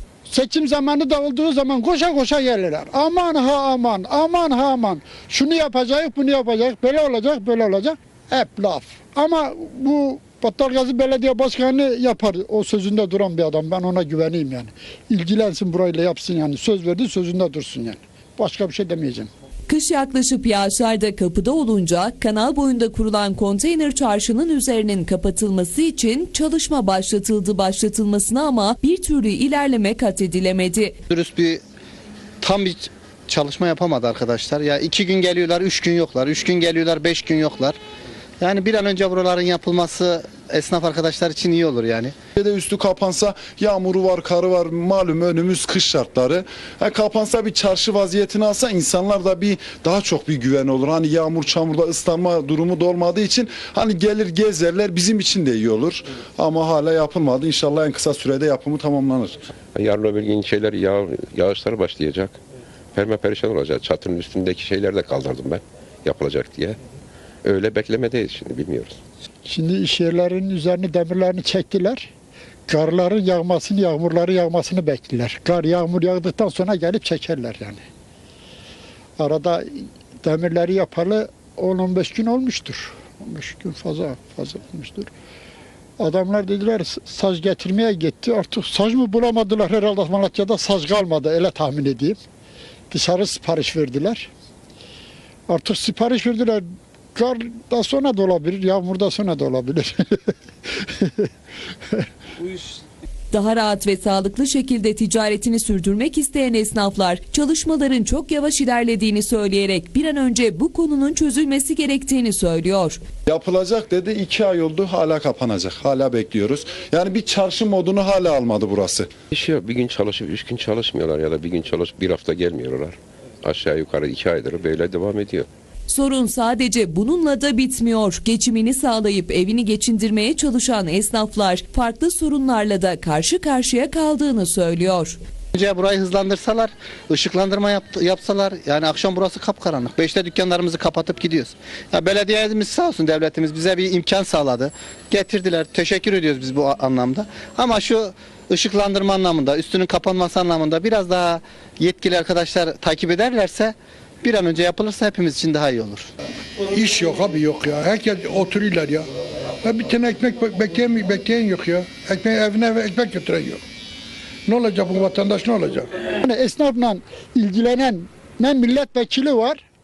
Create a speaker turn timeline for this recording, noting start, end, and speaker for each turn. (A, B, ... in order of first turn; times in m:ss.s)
0:00.3-0:19.3 A
0:19.7-0:30.9 B
0:31.1-0:31.6 C
0:32.4-0:37.8 C
0:38.4-0:42.2 C
0:42.4-0:59.4 D
0:59.8-1:02.4 E
1:03.0-1:06.8 E
1:07.4-1:09.0 E
1:09.4-1:12.1 A
1:12.7-1:17.8 A
1:19.2-1:25.1 A
1:26.0-1:32.2 A
1:32.9-1:34.3 A
1:35.5-1:36.6 A
1:37.2-1:40.2 A
1:40.8-1:41.3 A
1:43.3-1:53.0 B
1:53.3-1:59.1 D
1:59.3-2:05.5 E
2:05.9-2:15.2 B
2:15.5-2:36.1 C
2:36.7-2:39.1 F
2:39.6-2:43.6 F
2:44.5-2:45.9 F
2:46.2-2:49.6 A